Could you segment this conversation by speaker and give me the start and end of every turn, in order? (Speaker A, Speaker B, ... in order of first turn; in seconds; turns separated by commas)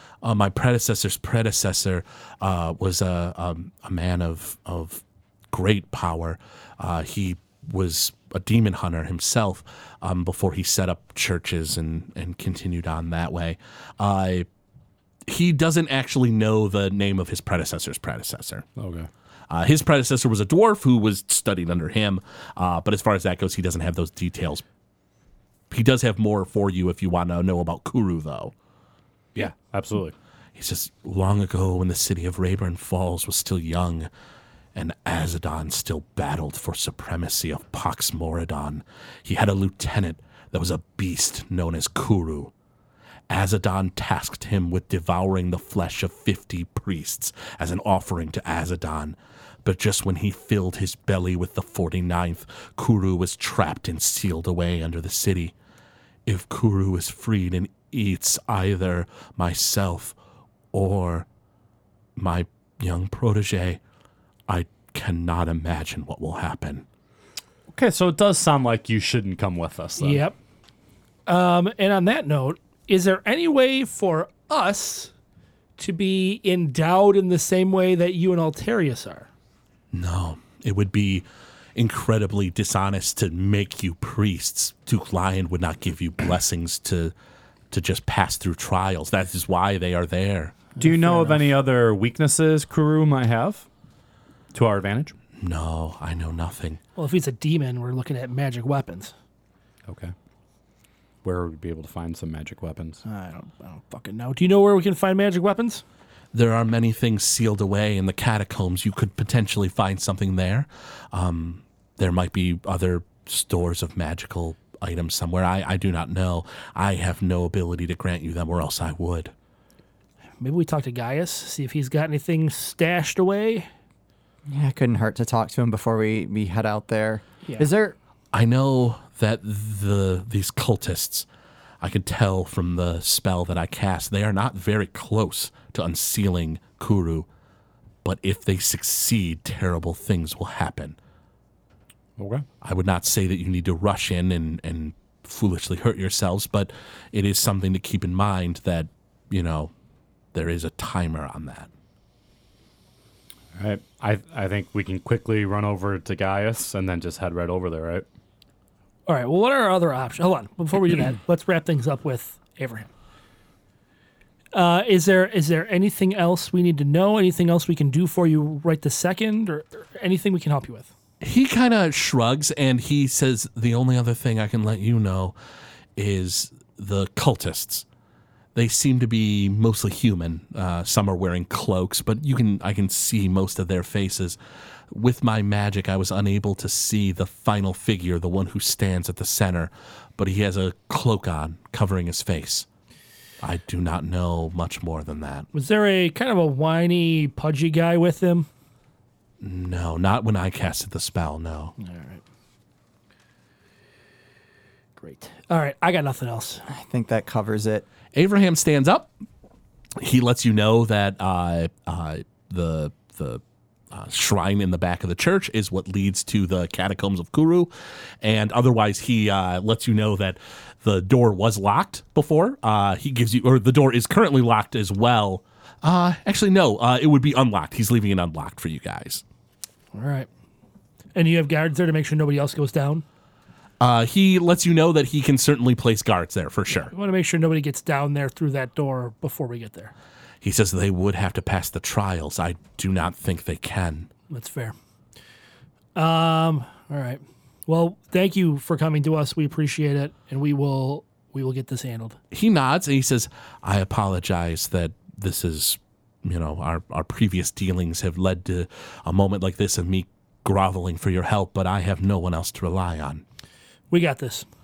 Speaker A: 0.2-14.5, Speaker A: 15.3-18.7, Speaker B: 18.8-19.1, Speaker A: 19.5-24.6, Speaker A: 25.7-28.5, Speaker B: 29.4-30.1, Speaker A: 30.5-34.1, Speaker A: 34.7-42.5, Speaker A: 43.3-55.5, Speaker A: 56.2-60.1, Speaker A: 60.7-61.3, Speaker A: 62.1-63.8, Speaker A: 64.5-66.8, Speaker B: 67.7-70.2, Speaker C: 70.0-70.3, Speaker C: 71.2-75.1, Speaker C: 75.8-79.3, Speaker A: 79.9-81.2, Speaker A: 81.8-87.1, Speaker A: 87.7-90.5, Speaker C: 90.8-91.5, Speaker B: 90.8-93.7, Speaker B: 94.5-95.1, Speaker A: 95.4-96.8, Speaker C: 97.0-99.1, Speaker B: 99.9-100.1, Speaker B: 101.2-103.0, Speaker C: 103.0-105.8, Speaker A: 106.3-119.3, Speaker C: 120.4-123.7, Speaker D: 124.5-128.0, Speaker A: 128.3-131.3, Speaker A: 131.8-137.3, Speaker A: 138.0-141.0, Speaker B: 142.2-142.4, Speaker A: 142.6-149.7, Speaker A: 150.3-151.7, Speaker B: 153.6-158.0, Speaker C: 159.1-162.9, Speaker C: 164.5-170.9, Speaker A: 171.2-175.3, Speaker A: 175.9-177.8, Speaker A: 178.5-184.4, Speaker A: 184.9-192.7, Speaker A: 193.4-195.4, Speaker C: 195.5-198.5, Speaker A: 199.4-201.7, Speaker C: 201.8-202.2, Speaker C: 205.0-206.6, Speaker D: 206.7-207.8, Speaker A: 208.1-209.1, Speaker A: 210.0-213.4, Speaker A: 213.9-217.7, Speaker A: 218.2-229.2, Speaker C: 229.9-230.3, Speaker C: 231.1-233.0, Speaker A: 233.8-236.9, Speaker C: 236.7-239.9, Speaker A: 240.4-244.1, Speaker C: 244.3-244.7, Speaker C: 245.9-252.2, Speaker A: 252.3-263.2, Speaker C: 263.9-264.4